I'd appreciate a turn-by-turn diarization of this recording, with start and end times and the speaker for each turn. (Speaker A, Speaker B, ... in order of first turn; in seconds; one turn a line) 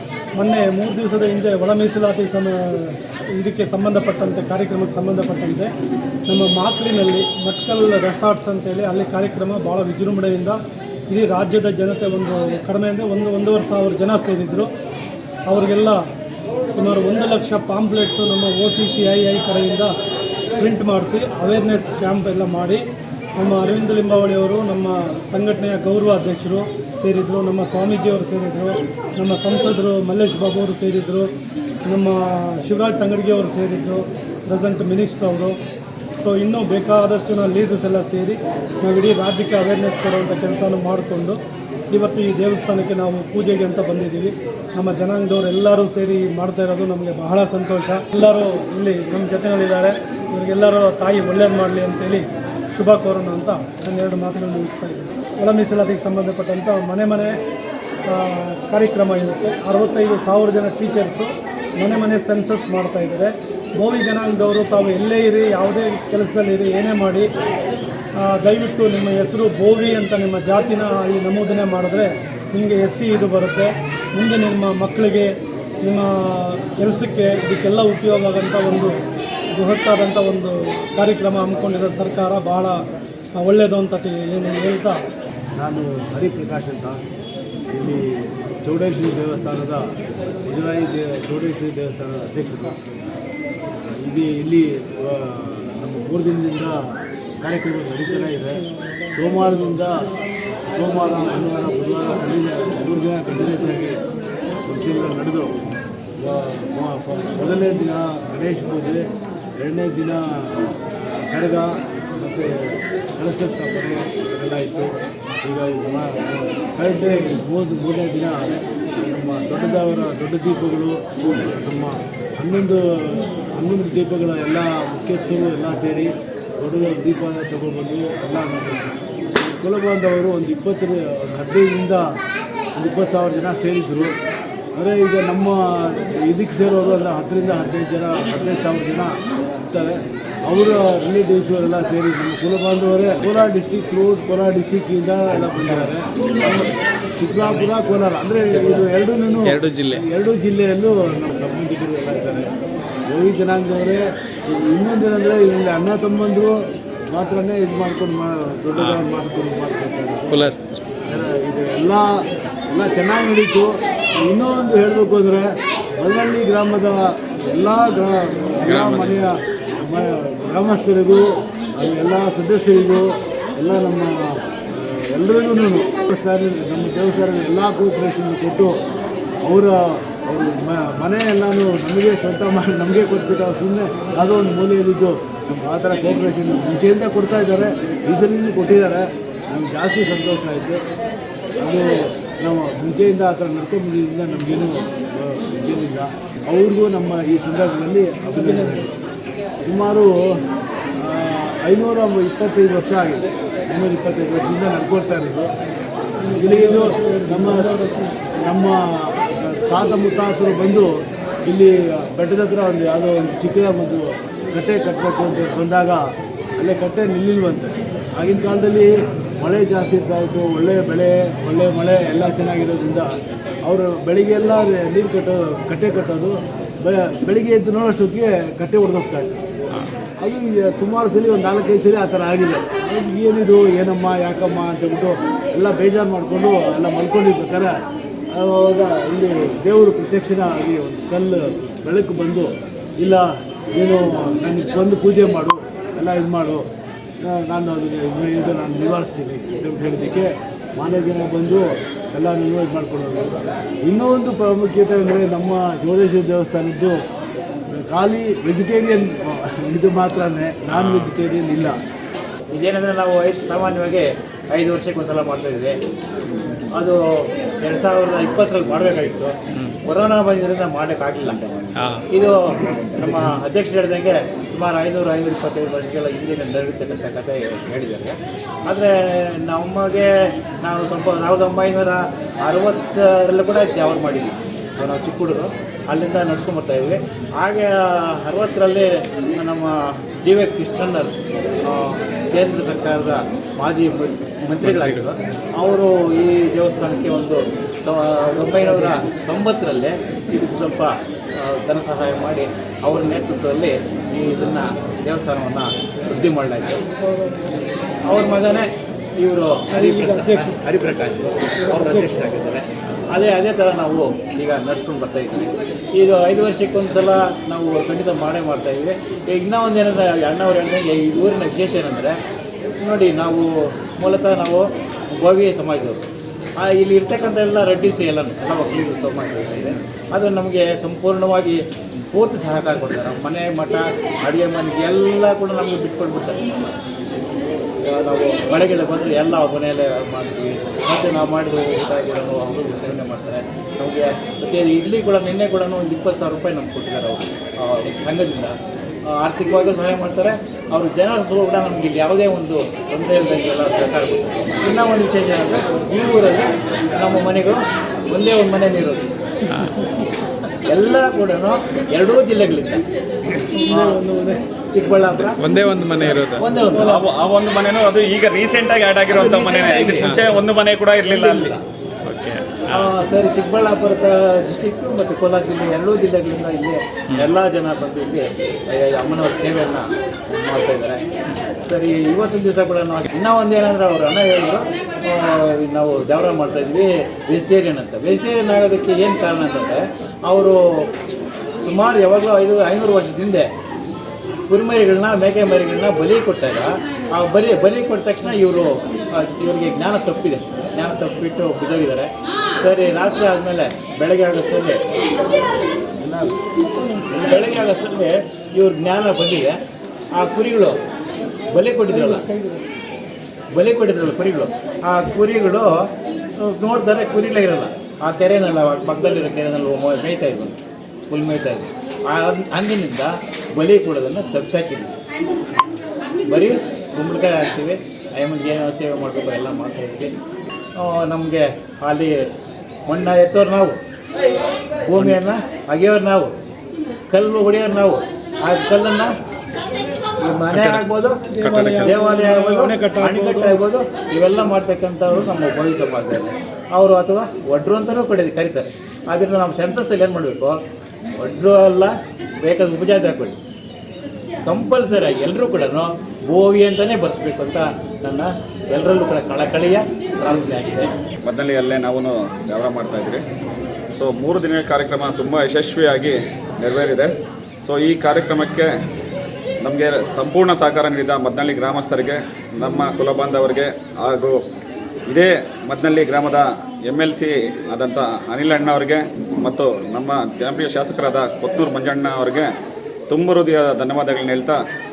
Speaker A: 0.3-5.7
Speaker A: 6.3-14.7
Speaker A: 15.5-16.0
Speaker A: 16.7-19.9
Speaker A: 20.6-22.8
Speaker A: 23.4-31.3
Speaker A: 31.9-35.6
Speaker A: 36.2-41.4
Speaker A: 41.9-57.4
Speaker A: 58.1-67.3
Speaker A: 68.2-79.0
Speaker A: 79.5-82.8
Speaker A: 83.3-85.0
Speaker B: 85.6-87.0
Speaker B: 87.7-89.9
Speaker B: 90.4-93.0
Speaker B: 93.9-100.0
Speaker B: 100.7-104.0
Speaker B: 104.7-105.5
Speaker B: 106.2-109.1
Speaker B: 109.6-110.5
Speaker B: 111.3-114.9
Speaker B: 115.4-132.2
Speaker B: 132.8-134.2
Speaker B: 134.7-152.5
Speaker C: 145.5-145.9
Speaker C: 149.5-150.0
Speaker B: 153.1-156.6
Speaker B: 157.1-160.4
Speaker C: 160.3-160.8
Speaker B: 161.0-162.1
Speaker B: 162.7-174.1
Speaker D: 168.7-169.0
Speaker B: 174.7-178.7
Speaker B: 179.4-190.8
Speaker B: 191.6-198.9
Speaker A: 198.3-198.9
Speaker B: 199.6-200.1
Speaker B: 201.0-205.5
Speaker A: 206.2-208.2
Speaker B: 206.3-207.7
Speaker B: 208.4-210.9
Speaker B: 211.4-216.0
Speaker B: 216.6-223.1
Speaker B: 223.6-229.4
Speaker B: 230.2-237.7
Speaker B: 238.3-246.7
Speaker B: 247.2-257.0
Speaker B: 257.7-261.8
Speaker E: 262.5-265.8
Speaker E: 266.7-271.4
Speaker E: 272.1-280.1
Speaker D: 272.5-273.1
Speaker E: 280.6-287.7
Speaker E: 288.2-306.8
Speaker A: 307.1-307.5
Speaker E: 308.1-322.2
Speaker A: 309.7-310.6
Speaker A: 311.6-312.1
Speaker E: 322.8-326.0
Speaker E: 326.6-336.5
Speaker E: 337.8-348.6
Speaker E: 349.1-359.1
Speaker E: 360.7-362.8
Speaker A: 363.5-364.4
Speaker E: 363.7-364.0
Speaker E: 364.7-365.4
Speaker C: 365.4-366.4
Speaker E: 366.0-366.9
Speaker A: 366.6-367.1
Speaker D: 366.8-371.6
Speaker E: 369.1-370.4
Speaker E: 371.0-371.6
Speaker C: 372.1-372.4
Speaker E: 372.7-381.0
Speaker E: 381.6-390.6
Speaker E: 391.6-393.5
Speaker E: 394.5-404.8
Speaker B: 406.0-406.3
Speaker A: 406.7-407.4
Speaker E: 407.1-409.6
Speaker E: 410.2-410.8
Speaker E: 411.5-412.2
Speaker A: 411.9-412.6
Speaker E: 413.5-415.7
Speaker E: 416.4-420.6
Speaker E: 421.1-424.9
Speaker E: 426.3-430.1
Speaker E: 430.8-432.1
Speaker E: 432.9-433.8
Speaker E: 434.8-436.3
Speaker E: 437.1-439.1
Speaker E: 440.2-441.2
Speaker A: 441.3-443.6
Speaker E: 441.8-450.6
Speaker E: 451.1-453.4
Speaker E: 454.4-460.9
Speaker D: 461.2-463.2
Speaker D: 464.0-467.1
Speaker D: 467.6-468.7
Speaker D: 469.6-474.4
Speaker D: 475.1-482.5
Speaker D: 483.1-484.6